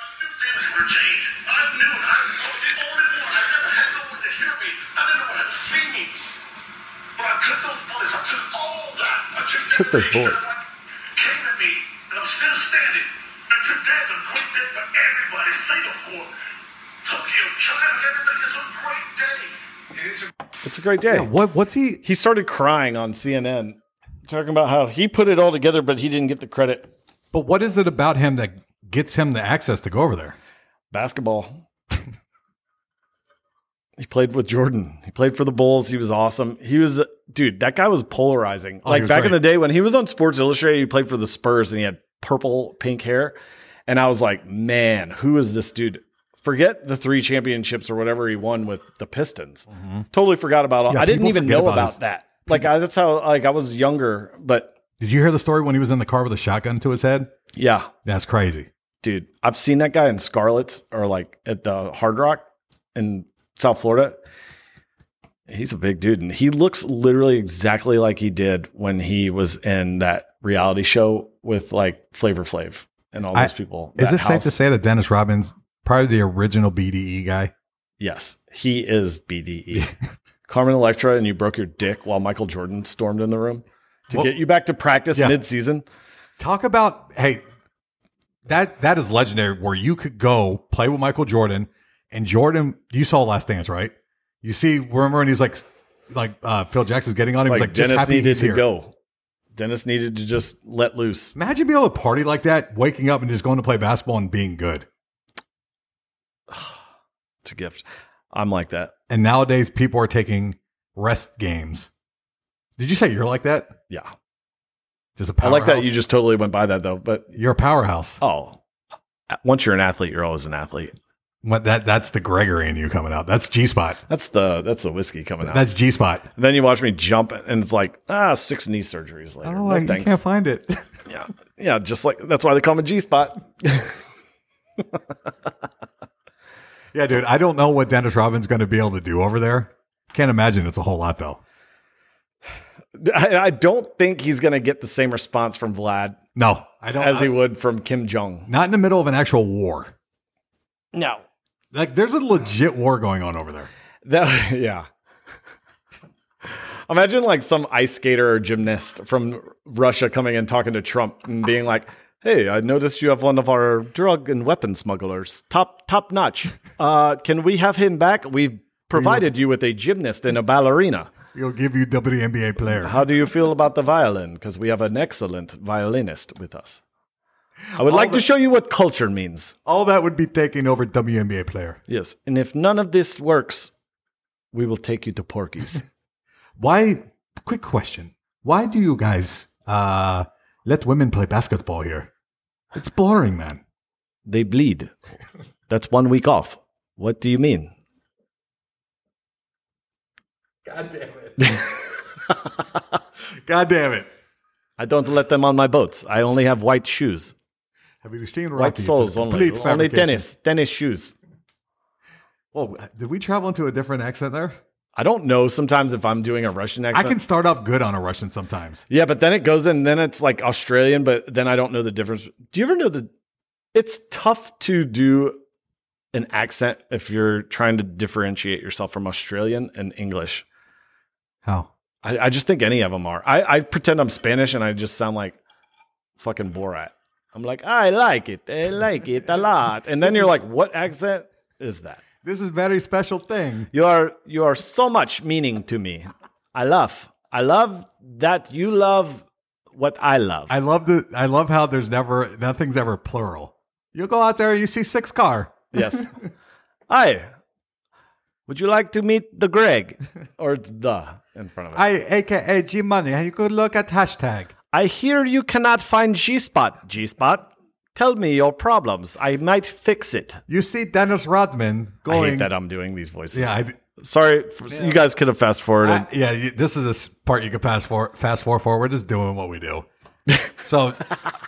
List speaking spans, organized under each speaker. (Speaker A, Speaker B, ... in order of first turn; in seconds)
Speaker A: 0.2-6.4, 7.2-10.6, 11.1-16.4, 17.0-19.5
Speaker B: 9.7-10.4, 20.6-21.3, 22.0-26.9, 30.9-31.6, 34.0-43.4, 43.9-54.7, 57.5-57.9, 59.0-62.4, 62.9-64.2, 65.5-74.5, 78.0-79.9, 80.5-85.8, 97.4-98.9, 99.5-101.3, 106.5-106.8, 107.4-108.9, 115.4-117.3, 118.2-118.6, 119.3-120.9, 124.1-125.7, 126.3-130.2, 131.1-134.0, 142.9-146.2, 147.0-148.5, 150.9-151.2, 154.0-154.9, 156.4-171.1, 172.8-176.8, 177.8-179.5, 181.9-183.7, 184.5-185.8, 194.2-194.9, 195.7-197.7, 204.8-207.3, 208.6-211.1, 214.9-217.2, 218.9-223.1, 223.7-225.4, 226.1-230.4, 232.0-235.4, 236.2-242.0, 243.7-250.5, 255.7-256.1, 256.9-257.3, 258.5-261.8, 264.7-270.4, 272.1-276.1
Speaker C: 21.1-22.0, 27.3-30.4, 38.8-39.4, 49.7-50.0, 50.9-52.0, 55.0-57.3, 58.0-58.7, 73.3-77.5, 86.4-87.4, 88.5-98.6, 101.3-104.9, 109.1-111.9, 112.8-113.8, 115.2-115.9, 117.3-118.2, 121.4-124.0, 125.4-126.3, 129.4-130.9, 136.9-141.4, 146.3-147.4, 148.5-149.9, 151.7-153.7, 168.9-169.2, 171.3-173.0, 177.7-178.2, 179.7-181.8, 186.6-192.1, 192.7-193.6, 200.6-201.8, 203.4-204.1, 208.0-210.2, 212.5-214.6, 216.9-218.8, 240.0-240.3, 242.2-243.7, 250.5-256.1, 261.7-264.5, 270.5-272.5, 273.3-273.8, 274.7-275.0, 275.8-279.9, 280.6-281.1